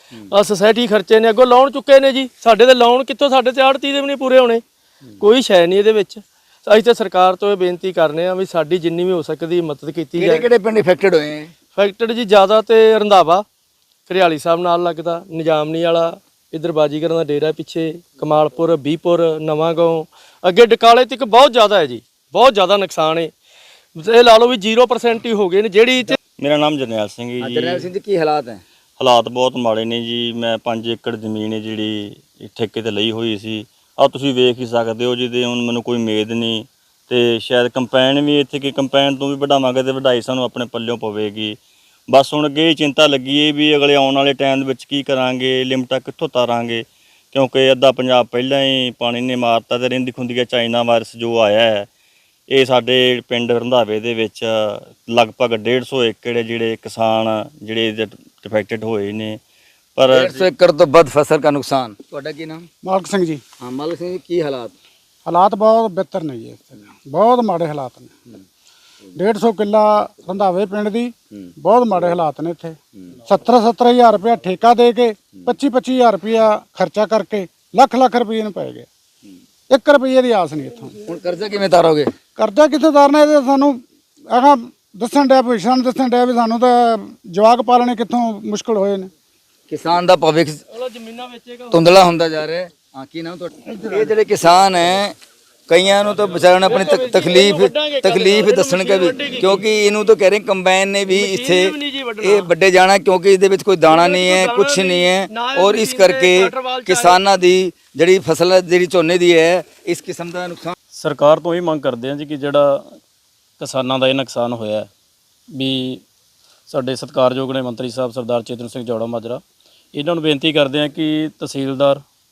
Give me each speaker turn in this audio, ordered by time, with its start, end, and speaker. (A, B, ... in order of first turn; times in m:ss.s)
0:00.3-0:04.6 A
0:05.2-0:10.5 A
0:10.2-0:11.5 B
0:11.8-0:13.4 A
0:14.1-0:23.3 A
0:24.0-0:26.2 A
0:26.4-0:27.9 C
0:27.4-0:28.6 B
0:29.0-0:41.6 C
0:42.1-0:51.9 C
0:52.5-0:59.4 C
1:00.0-1:00.4 C
1:00.1-1:02.7 B
1:02.8-1:03.4 D
1:03.6-1:04.7 B
1:05.2-1:08.4 D
1:09.1-1:18.9 D
1:19.7-1:20.9 D
1:21.1-1:22.1 B
1:22.4-1:29.1 D
1:29.7-1:30.6 B
1:30.7-1:31.8 A
1:31.7-1:35.1 B
1:33.7-1:34.1 D
1:35.7-1:50.7 B
1:36.6-1:39.6 A
1:41.1-1:42.5 A
1:43.9-1:47.2 A
1:50.9-1:53.0 E
1:53.6-1:54.9 E
1:55.5-1:56.0 E
1:56.7-1:59.4 E
1:59.9-2:02.0 E